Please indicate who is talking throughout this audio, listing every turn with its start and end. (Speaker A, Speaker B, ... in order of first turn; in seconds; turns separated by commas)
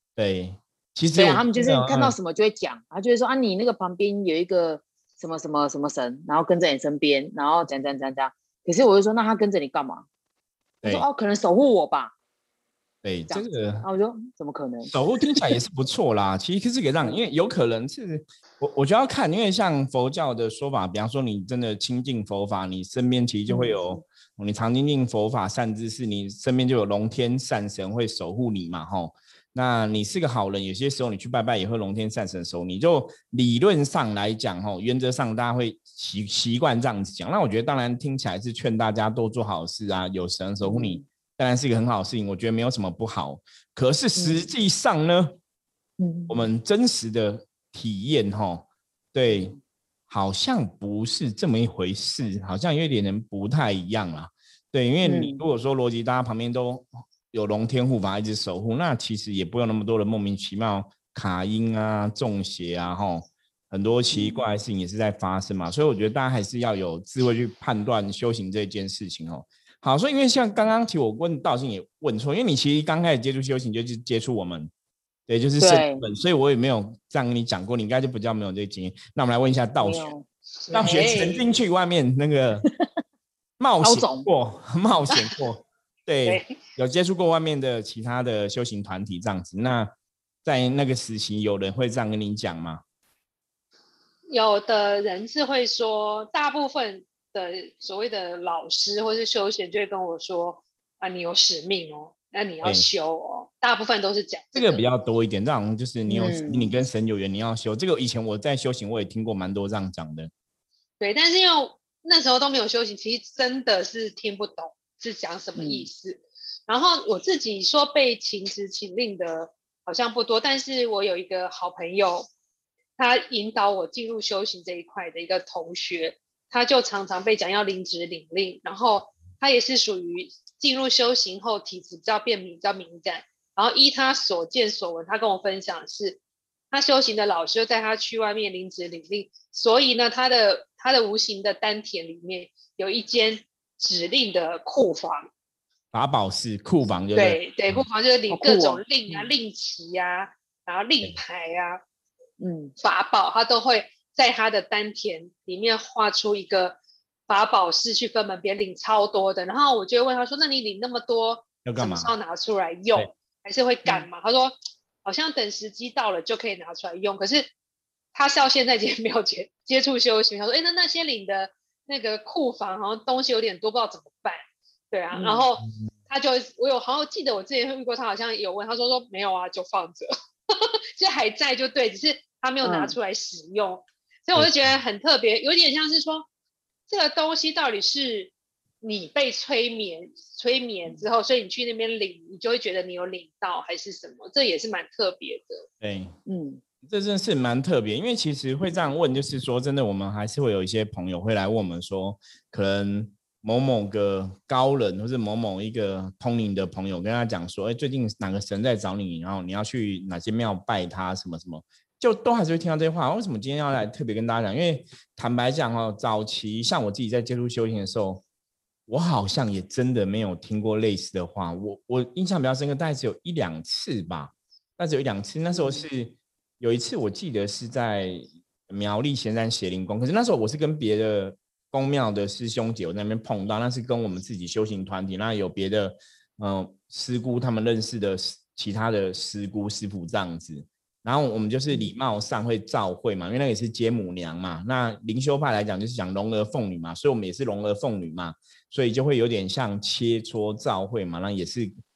Speaker A: 0.2-2.1, Speaker B: 1.2-10.1, Speaker B: 10.8-12.1, Speaker A: 13.0-13.8, Speaker B: 13.3-15.6, Speaker A: 14.9-45.4, Speaker B: 23.5-24.0, Speaker B: 40.6-41.0, Speaker B: 44.2-44.5, Speaker B: 46.0-46.5, Speaker A: 46.3-49.5, Speaker B: 49.3-49.6, Speaker A: 50.1-74.7, Speaker B: 55.0-55.4, Speaker B: 64.1-64.4, Speaker A: 75.3-80.1, Speaker B: 75.6-76.0, Speaker B: 79.8-80.2, Speaker C: 80.7-81.4, Speaker A: 80.7-82.7, Speaker A: 83.6-89.9, Speaker B: 83.8-84.3, Speaker C: 86.2-86.5, Speaker A: 90.4-92.8, Speaker C: 94.3-104.8, Speaker A: 104.5-110.3, Speaker B: 106.1-106.7, Speaker C: 111.0-122.3, Speaker B: 115.6-115.9, Speaker C: 123.0-136.2, Speaker C: 136.7-145.3, Speaker A: 145.9-147.8, Speaker C: 147.2-151.8, Speaker B: 148.3-149.3, Speaker B: 152.4-152.7, Speaker C: 152.8-167.5, Speaker A: 161.6-162.1, Speaker C: 168.1-186.3, Speaker B: 175.1-175.4, Speaker B: 182.6-182.9, Speaker A: 184.3-184.8, Speaker C: 186.9-195.7, Speaker A: 195.8-196.2, Speaker B: 196.3-196.6, Speaker A: 196.8-218.2, Speaker A: 218.9-251.7, Speaker B: 225.5-225.9